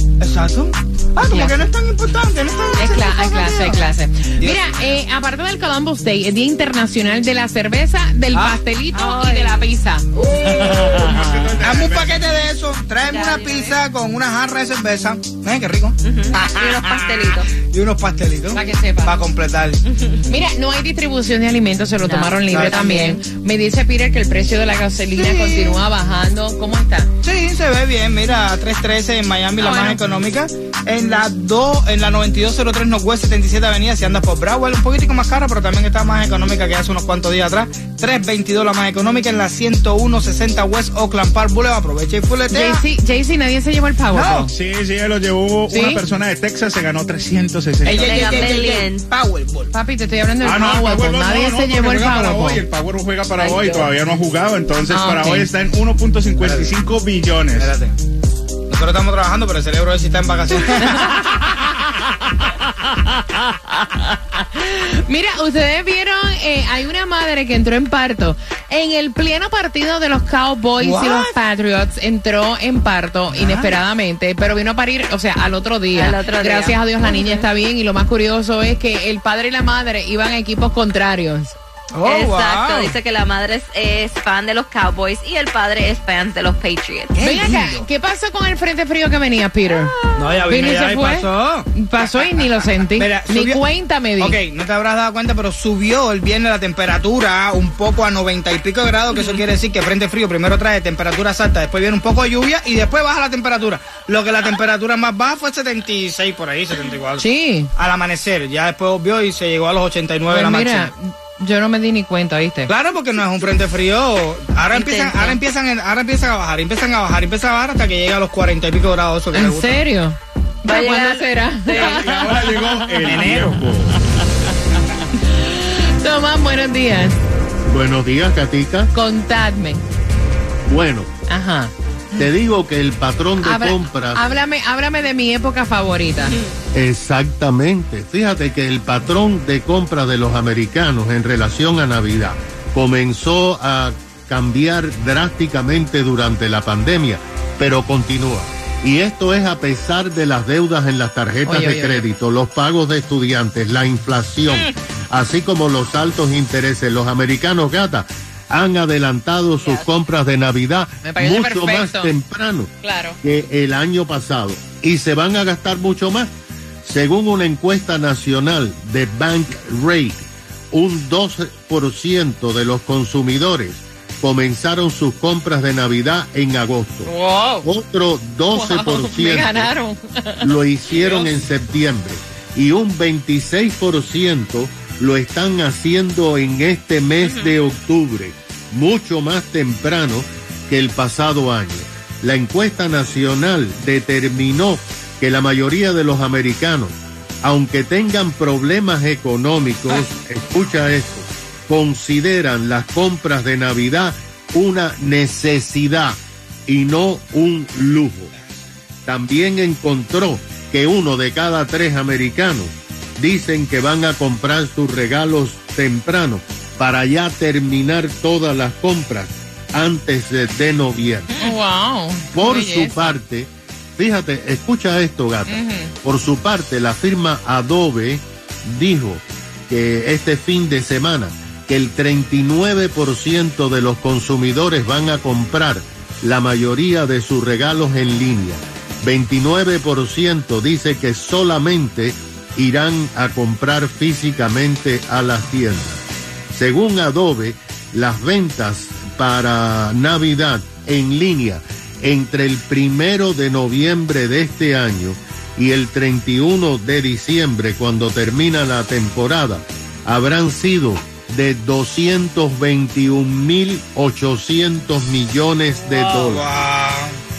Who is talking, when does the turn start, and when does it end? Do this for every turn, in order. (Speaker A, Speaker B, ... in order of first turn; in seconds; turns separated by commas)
Speaker A: 0.2-3.9, Speaker B: 2.8-11.2, Speaker A: 4.4-5.0, Speaker A: 8.3-8.6, Speaker C: 8.9-9.6, Speaker D: 10.4-12.3, Speaker A: 11.6-19.8, Speaker C: 13.1-13.8, Speaker C: 16.0-17.5, Speaker B: 18.5-19.1, Speaker C: 19.9-20.2, Speaker B: 20.3-27.1, Speaker C: 22.0-23.1, Speaker A: 22.5-23.2, Speaker A: 25.1-25.8, Speaker A: 27.2-42.8, Speaker B: 29.6-30.0, Speaker B: 42.5-44.5, Speaker A: 44.1-44.5, Speaker D: 44.5-48.5, Speaker B: 45.7-46.0, Speaker A: 47.8-49.7, Speaker C: 47.9-49.0, Speaker B: 49.7-52.6, Speaker D: 50.4-57.7, Speaker C: 53.4-53.9, Speaker B: 54.9-55.5, Speaker A: 56.4-56.7, Speaker A: 57.6-58.0, Speaker A: 58.7-61.1, Speaker B: 64.5-81.5, Speaker A: 70.8-71.3, Speaker A: 73.3-73.8, Speaker C: 75.9-77.4, Speaker A: 81.9-83.0, Speaker C: 82.0-87.2, Speaker A: 87.1-87.9, Speaker B: 87.2-94.4, Speaker A: 90.2-93.6, Speaker A: 94.2-110.9, Speaker B: 107.2-107.7, Speaker B: 110.3-112.7, Speaker A: 112.7-119.8, Speaker C: 114.7-115.4, Speaker B: 119.3-123.5, Speaker C: 120.7-122.6, Speaker D: 121.7-124.0, Speaker A: 123.1-123.6, Speaker B: 125.3-127.2, Speaker E: 127.7-128.9, Speaker B: 128.9-129.8, Speaker E: 130.7-131.1, Speaker B: 131.3-131.7, Speaker E: 132.2-134.3, Speaker B: 133.4-136.4, Speaker E: 136.7-166.3, Speaker B: 151.5-152.1, Speaker C: 154.5-154.8, Speaker C: 159.6-159.9, Speaker B: 161.0-162.1, Speaker B: 162.8-163.2, Speaker E: 166.8-177.1, Speaker B: 177.1-177.7, Speaker E: 177.6-179.7, Speaker B: 178.5-180.5, Speaker E: 180.4-208.3, Speaker A: 181.0-181.3, Speaker C: 187.2-187.6, Speaker E: 209.1-221.3, Speaker C: 221.3-221.6, Speaker B: 221.4-223.1, Speaker E: 222.3-266.5, Speaker B: 225.5-225.9, Speaker A: 265.9-267.2